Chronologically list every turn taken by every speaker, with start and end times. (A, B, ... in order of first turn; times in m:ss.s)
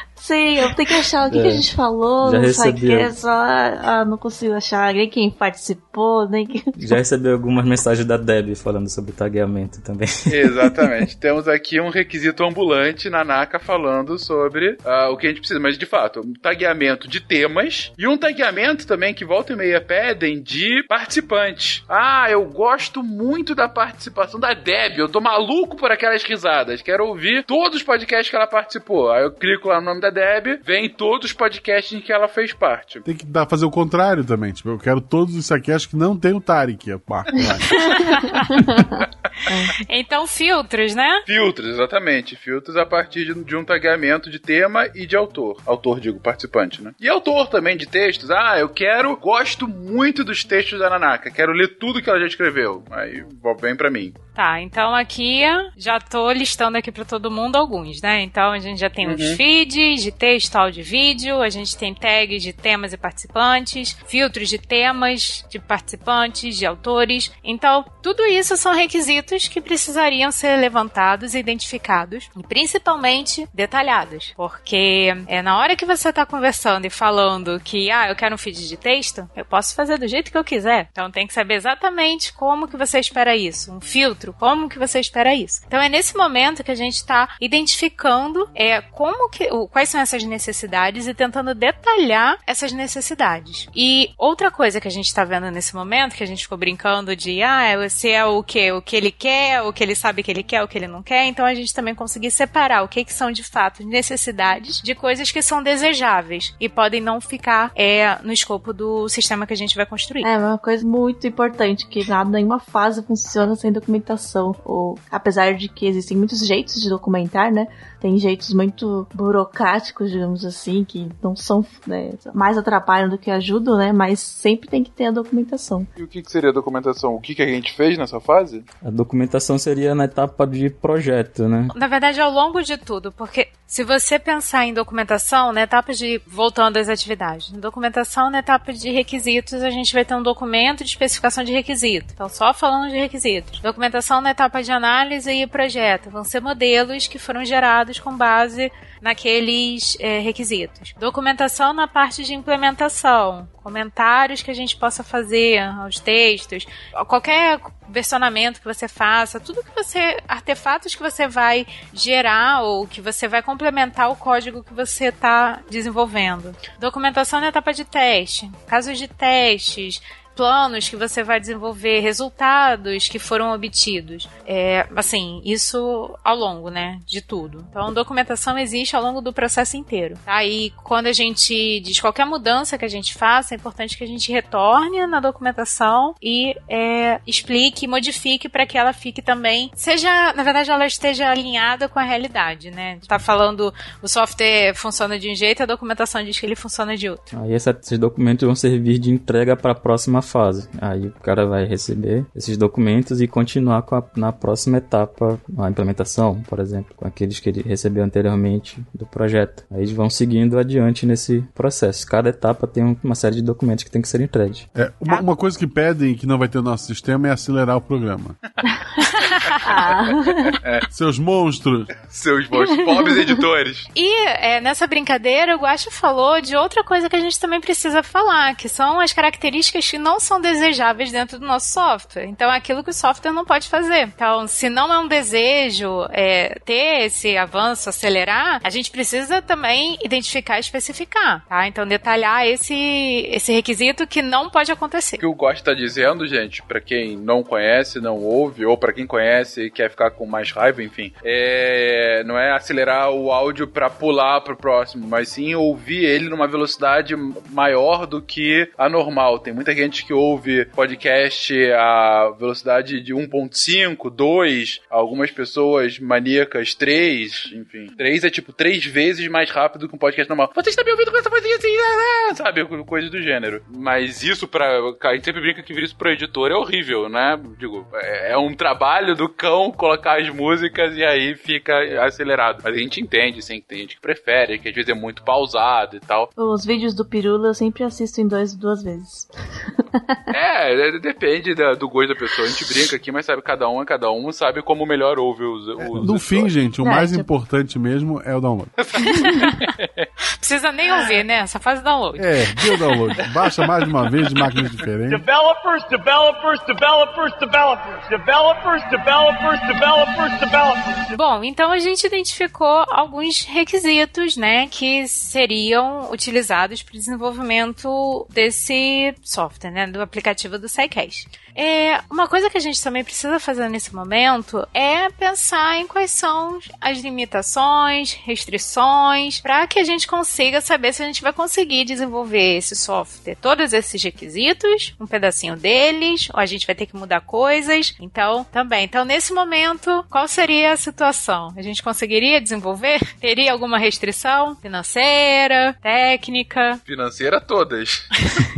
0:00.2-0:07.0 A
0:01.3-0:01.6 B
0:02.2-0:03.1 B
0:06.8-0:10.9 B
0:10.3-0:33.0 C
0:33.0-0:38.0 D
0:37.7-0:38.7 E
0:38.5-0:39.7 A
0:39.7-0:41.2 E
0:41.3-0:54.2 C
0:54.4-1:50.3 E
0:59.0-0:59.4 C
1:50.2-2:05.9 A
2:06.0-2:08.6 C
2:08.8-2:11.7 B
2:11.7-3:17.2 E
3:17.3-3:34.7 B
3:34.7-3:38.4 D
3:38.5-3:40.8 C
3:39.0-3:39.6 E
3:39.6-3:40.6 A
3:40.9-3:41.9 D
3:42.0-3:43.9 C
3:42.7-3:43.3 A
3:43.9-4:05.2 E
4:05.2-4:46.3 C
4:46.4-4:49.3 A
4:50.3-4:56.6 C
4:55.8-4:58.7 D
4:56.8-4:57.3 A
4:58.8-5:00.1 C
4:59.0-4:59.6 E
5:00.4-5:02.2 E
5:02.2-5:05.2 D
5:03.2-5:03.7 C
5:05.1-5:11.2 F
5:11.1-5:46.8 E
5:46.8-5:48.4 C